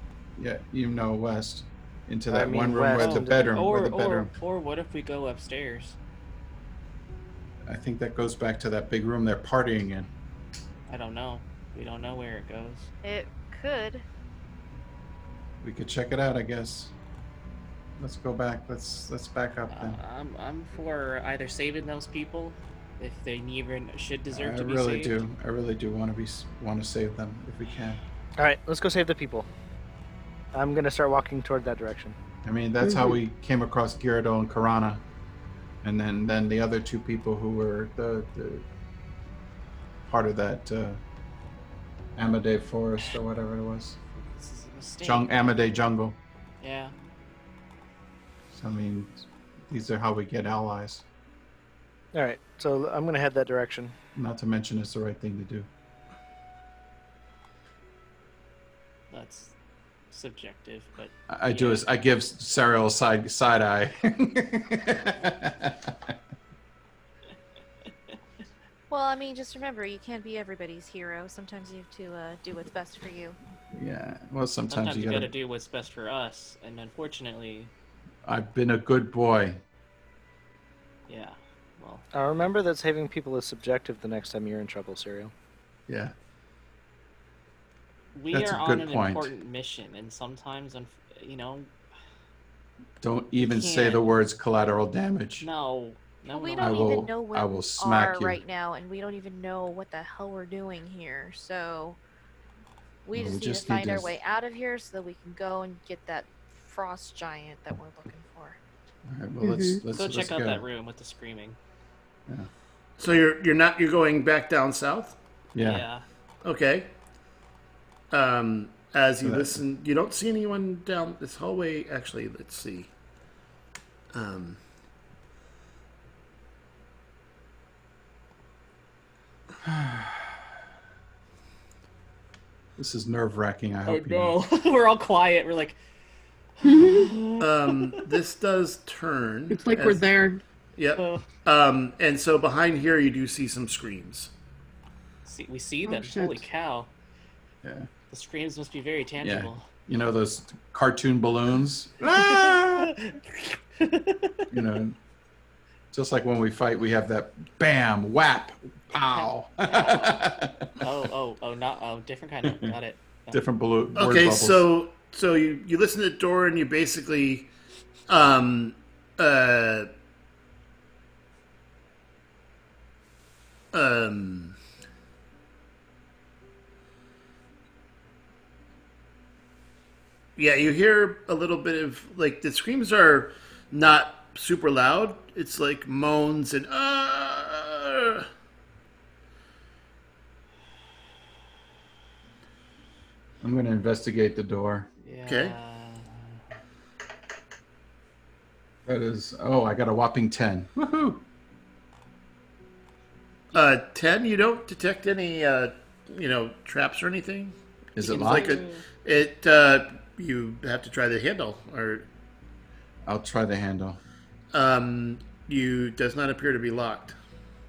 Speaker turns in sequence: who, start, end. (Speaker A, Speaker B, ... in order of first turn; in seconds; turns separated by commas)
Speaker A: 0.4-4.3, Speaker B: 2.3-3.6, Speaker C: 3.0-6.0, Speaker A: 7.7-10.1, Speaker C: 10.9-12.9, Speaker D: 13.0-14.1, Speaker A: 15.6-16.9, Speaker A: 18.0-20.0, Speaker C: 19.7-25.2, Speaker A: 24.3-28.0, Speaker B: 28.4-29.5, Speaker B: 30.5-32.2, Speaker A: 32.4-35.0, Speaker E: 32.8-33.2, Speaker A: 35.8-38.6, Speaker A: 40.1-41.0, Speaker A: 42.2-44.0, Speaker C: 44.2-45.5, Speaker A: 45.0-46.2, Speaker C: 46.6-46.9, Speaker A: 48.5-51.0, Speaker B: 52.1-53.9, Speaker A: 54.1-55.7, Speaker C: 59.1-59.5, Speaker C: 60.1-61.8, Speaker A: 61.3-66.2, Speaker D: 68.9-73.4, Speaker A: 73.7-75.3, Speaker C: 74.7-77.7, Speaker A: 78.2-79.6, Speaker C: 81.1-82.0, Speaker B: 82.1-85.3, Speaker A: 85.9-86.1, Speaker C: 88.2-91.7, Speaker A: 88.3-89.3, Speaker A: 93.0-95.5, Speaker C: 93.4-94.1, Speaker C: 95.4-97.1, Speaker D: 96.3-102.0, Speaker A: 96.6-98.4, Speaker D: 103.0-108.6, Speaker A: 103.2-104.2, Speaker A: 109.1-110.7, Speaker E: 109.4-109.8, Speaker C: 109.9-111.6, Speaker F: 113.0-115.2, Speaker A: 115.5-115.8, Speaker C: 115.6-116.0, Speaker F: 116.4-116.9, Speaker F: 118.1-122.9, Speaker A: 119.2-119.6, Speaker F: 124.1-124.6, Speaker A: 129.6-130.3, Speaker A: 132.8-134.4, Speaker C: 133.9-135.8, Speaker C: 136.6-138.0, Speaker E: 136.6-137.1, Speaker F: 137.4-140.1, Speaker E: 139.5-140.4, Speaker F: 140.8-144.3, Speaker C: 141.0-141.3, Speaker C: 145.2-146.9, Speaker E: 145.8-146.4, Speaker A: 147.6-147.9, Speaker C: 148.1-149.7, Speaker A: 149.2-152.9, Speaker C: 152.1-154.4, Speaker A: 154.5-155.0, Speaker A: 155.9-160.8, Speaker C: 159.1-163.4, Speaker A: 162.4-162.8, Speaker A: 163.3-164.7, Speaker F: 163.9-167.5, Speaker F: 168.1-169.9, Speaker F: 173.7-174.6, Speaker F: 180.4-188.3, Speaker A: 193.4-194.9, Speaker C: 195.0-196.4, Speaker F: 195.3-195.6, Speaker A: 198.9-201.2, Speaker F: 203.5-212.1, Speaker A: 207.9-208.6, Speaker C: 208.0-208.8, Speaker A: 213.1-214.0, Speaker F: 214.5-217.2